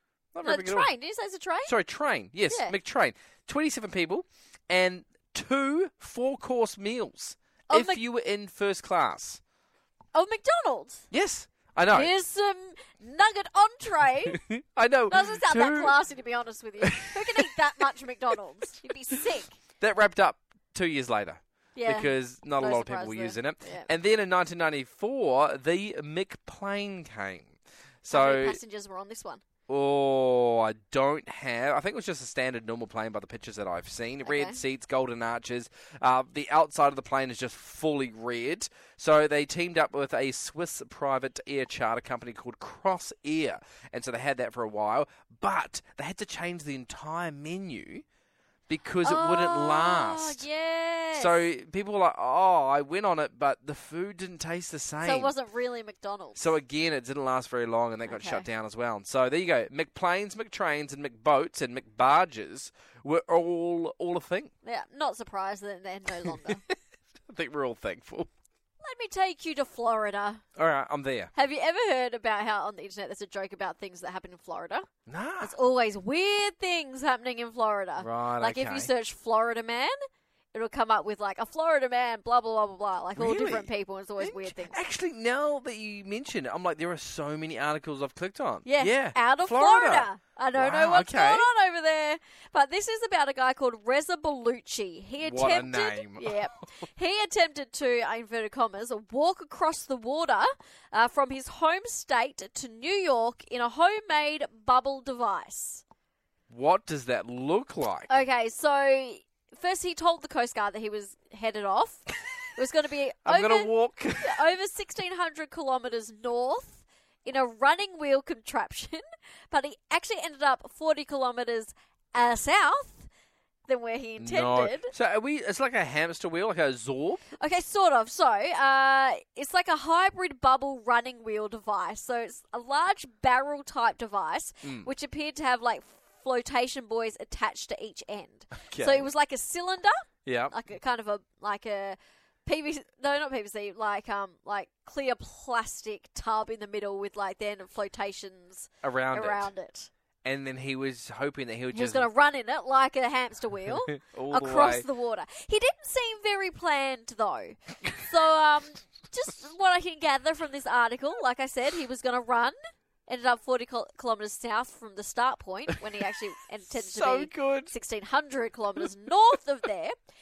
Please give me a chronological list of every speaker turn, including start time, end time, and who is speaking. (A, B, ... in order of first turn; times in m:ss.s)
0:00.3-0:00.9 A
0:00.4-0:01.7 B
0:01.6-0:09.4 A
0:02.5-0:02.7 B
0:07.7-0:08.0 B
0:10.1-0:11.0 B
0:11.1-0:12.1 A
0:11.9-0:14.4 B
0:14.3-0:16.0 A
0:15.1-0:19.6 B
0:16.8-0:17.5 A
0:19.8-0:28.6 A
0:21.7-0:23.9 B
0:28.1-0:29.4 B
0:29.7-0:48.0 A
0:34.2-0:34.6 B
0:48.7-0:50.4 A
0:49.0-0:51.4 B
0:51.1-0:55.3 A
0:55.0-0:56.5 B
0:56.4-1:04.5 A
0:58.0-0:58.4 B
1:04.6-1:06.6 B
1:06.3-1:06.6 A
1:07.3-1:08.3 A
1:08.8-1:10.4 B
1:10.6-1:11.3 A
1:11.3-1:14.8 B
1:15.1-1:15.5 A
1:15.4-1:19.9 B
1:18.0-1:18.9 A
1:20.5-1:24.8 B
1:23.2-1:31.5 A
1:28.6-1:45.8 B
1:35.2-1:36.4 A
1:46.5-1:48.1 A
1:48.1-2:03.1 B
1:53.2-1:54.4 A
2:03.7-2:04.9 B
2:04.2-2:07.2 A
2:07.4-2:29.9 B
2:14.6-2:14.9 A
2:18.7-2:19.1 A
2:20.2-2:20.5 A
2:28.8-2:29.5 A
2:30.2-2:32.1 A
2:31.7-2:49.9 B
2:33.9-2:34.8 A
2:46.7-2:47.7 A